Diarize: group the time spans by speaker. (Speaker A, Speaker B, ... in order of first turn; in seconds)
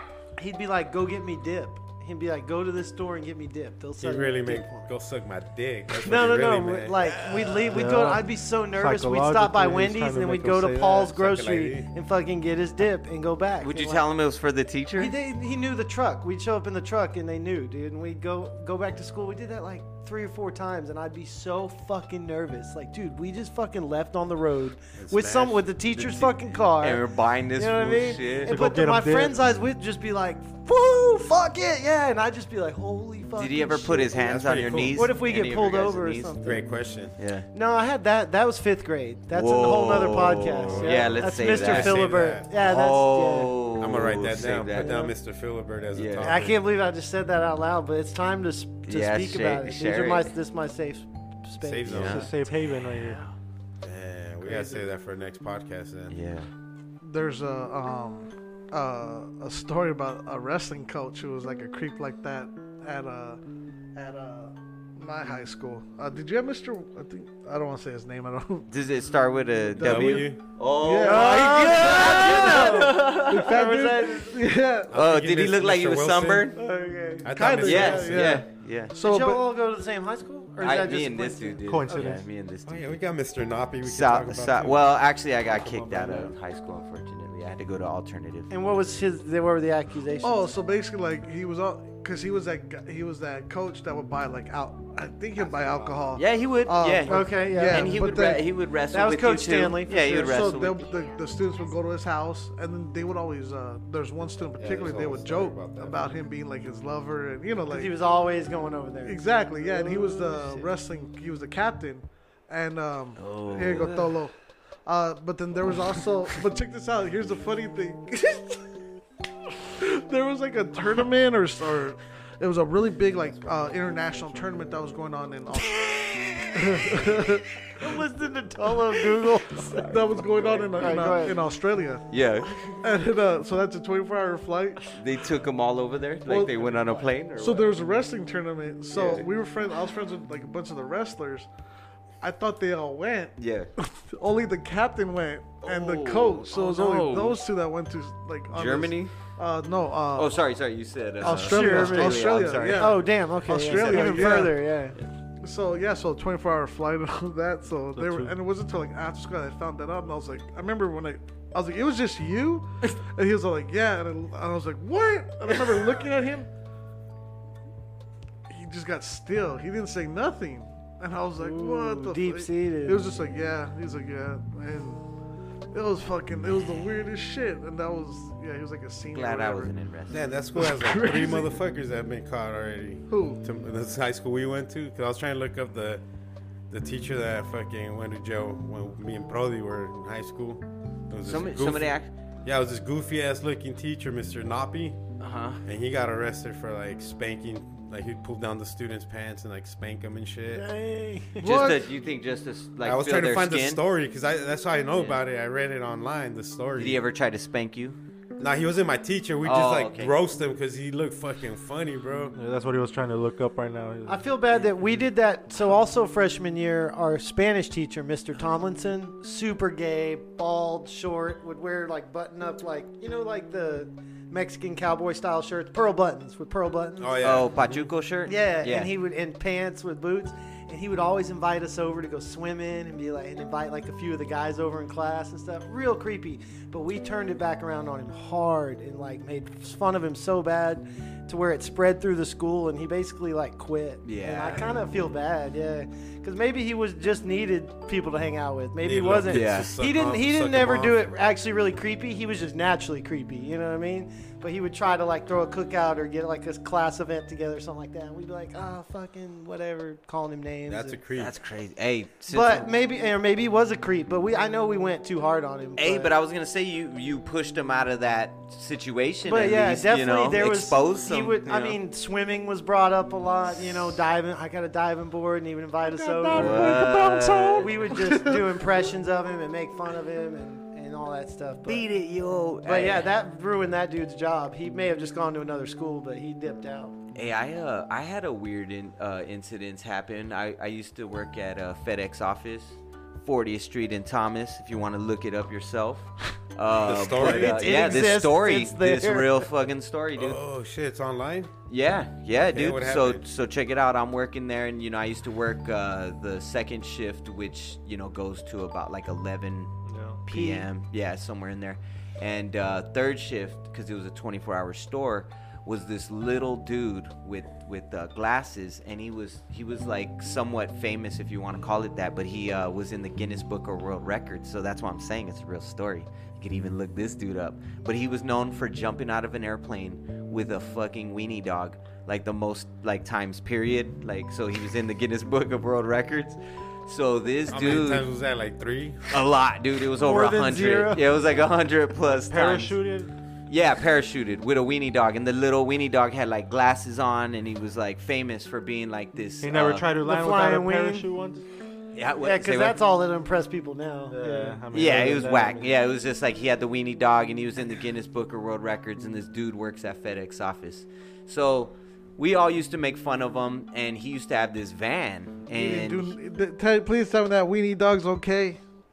Speaker A: 0.4-4.9, 5.9-14.1, 15.0-27.0, 27.6-34.1, 35.0-36.6, 37.5-43.5, 44.7-45.1, 46.2-52.1, 71.0-74.4, 76.5-77.3, 79.0-82.2, 88.5-90.5, 97.1-98.3, 98.9-100.4, 107.7-110.7, 125.7-131.4, 151.2-154.9, 171.4-173.0, 200.5-201.7, 214.1-227.4, 228.2-261.0, 262.3-266.1, 269.2-276.7, 277.6-281.8, 282.6-286.9, 297.2-299.4, 310.3-310.6, 340.0-341.0, 350.0-351.1, 352.2-354.6
Speaker B: 4.0-7.8, 10.9-11.9, 25.0-26.3, 34.1-35.0, 36.4-37.1, 40.6-42.5, 43.8-46.6, 51.6-52.3, 53.8-56.2, 69.8-70.4, 74.9-76.5, 77.2-78.4, 82.7-84.9, 85.6-86.3, 95.4-96.0, 104.6-106.0, 180.1-186.0, 186.7-195.0, 195.6-200.7, 202.8-207.0, 208.4-212.3, 227.0-227.8, 248.8-251.1, 260.7-261.3, 296.7-298.1, 300.1-301.5, 302.3-303.2, 337.5-339.2
Speaker C: 7.7-11.1, 28.5-29.4, 52.0-53.2, 81.7-82.2, 157.9-158.3, 212.3-214.3, 276.3-276.8, 309.9-310.3, 342.1-343.1, 349.4-351.4, 354.1-355.7
Speaker D: 13.6-15.1, 26.2-28.6, 33.4-36.4, 37.2-37.5, 39.3-45.1, 45.9-46.4, 48.9-50.3, 51.9-52.3, 53.0-53.3, 56.1-56.5, 68.7-73.5, 74.9-76.6, 77.6-78.9, 80.6-82.9, 83.8-88.5, 96.1-100.9, 113.2-114.1, 130.2-131.2, 132.1-132.7, 134.9-137.7, 138.9-139.3, 143.4-143.7, 145.6-147.4, 148.5-149.3, 150.1-154.5, 179.1-180.2, 191.2-192.1, 195.2-195.6, 201.4-203.8, 204.9-205.2, 206.8-208.0, 209.4-210.1, 227.2-228.9, 244.0-244.7, 249.3-249.7, 261.1-262.7, 265.8-271.8, 276.3-277.7, 281.6-283.1, 287.1-300.4, 301.7-309.7, 310.2-338.1, 339.1-342.8, 343.5-349.9, 351.9-352.8, 354.7-366.1
Speaker E: 57.0-63.4, 63.9-68.7, 69.8-74.9, 77.3-79.5, 90.2-98.4, 100.2-107.9, 109.0-118.7, 119.7-125.8, 126.5-127.9, 129.8-132.1, 132.8-134.9, 136.2-141.5, 142.2-150.4, 151.2-154.6, 155.4-166.5, 168.5-175.0, 175.7-179.7, 180.5-181.6, 183.1-183.4, 201.4-201.9, 275.9-278.4, 365.5-368.6